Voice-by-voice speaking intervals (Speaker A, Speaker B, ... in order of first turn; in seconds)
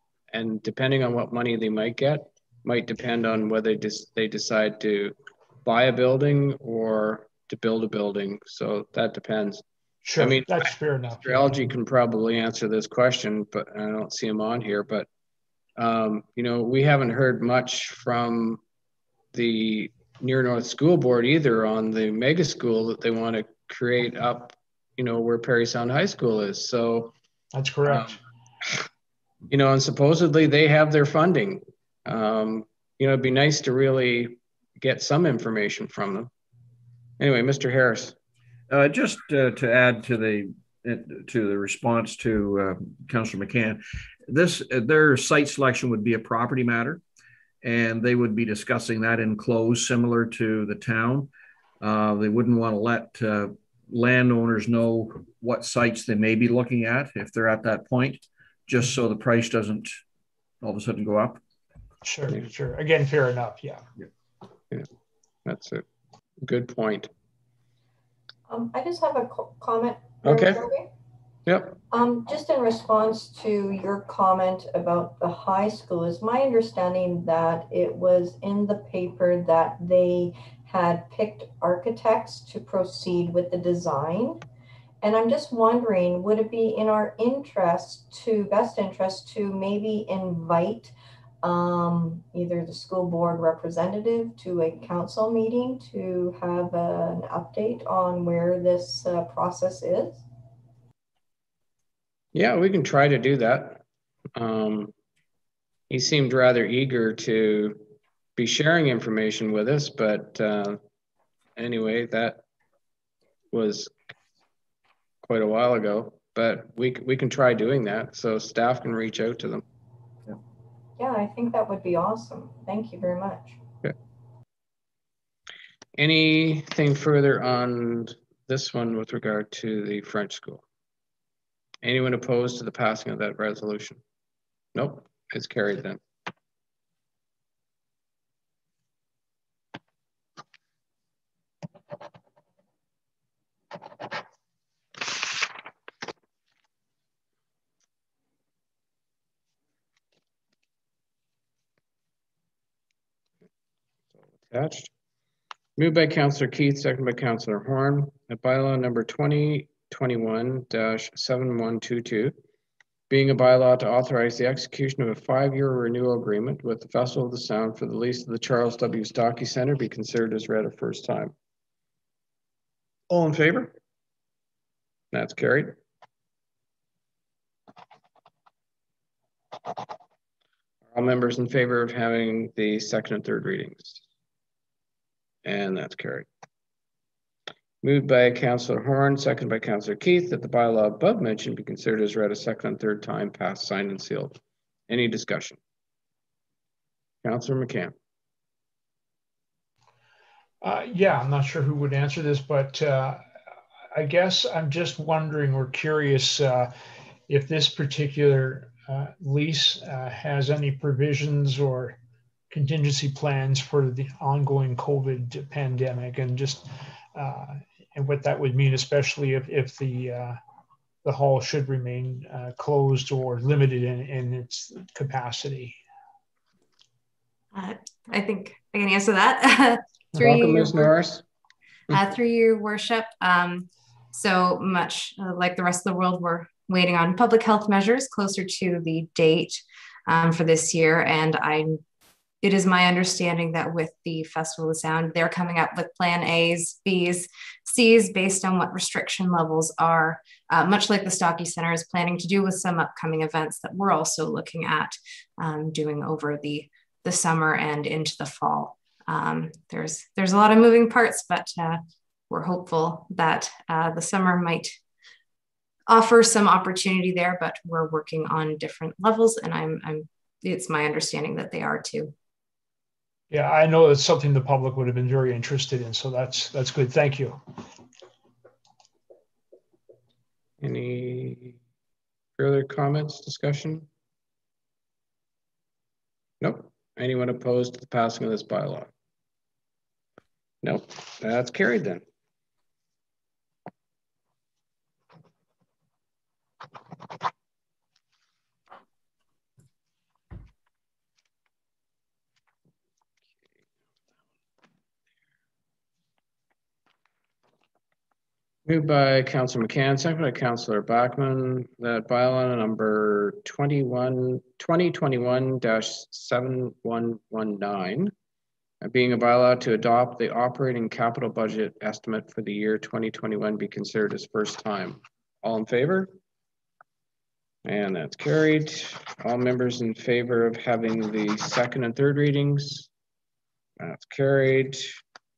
Speaker A: 0.3-9.6, 10.2-15.1, 15.8-18.6, 19.3-27.1, 29.5-36.3, 37.2-38.1, 65.4-65.8, 66.4-67.1, 70.2-70.6, 71.5-71.7, 102.3-103.8, 104.3-104.9, 105.9-107.8, 108.3-110.8, 111.6-112.4, 113.5-113.9, 115.2-119.6, 126.0-130.6, 131.8-134.0, 134.7-136.0, 154.5-154.9, 155.8-162.3, 163.1-171.3, 173.1-173.7, 175.1-175.8, 180.9-184.0, 185.4-186.3, 187.8-194.4, 194.9-195.6, 197.2-197.9, 230.2-231.2, 280.6-281.6, 282.4-283.9, 286.4-288.9, 290.6-292.0, 308.6-318.1, 318.8-326.1, 327.6-332.9, 333.8-335.0
Speaker B: 10.0-11.5, 27.5-28.2, 62.0-63.8, 200.6-203.2, 203.9-206.7, 207.3-212.0, 212.5-220.4, 221.0-225.8, 273.3-277.4
Speaker C: 38.7-47.0, 47.6-51.3, 51.8-59.9, 60.6-61.4
Speaker D: 68.5-70.9, 71.9-84.4, 85.0-100.2, 121.0-123.6
Speaker E: 227.5-230.9, 231.9-241.8, 242.4-264.8, 265.9-272.1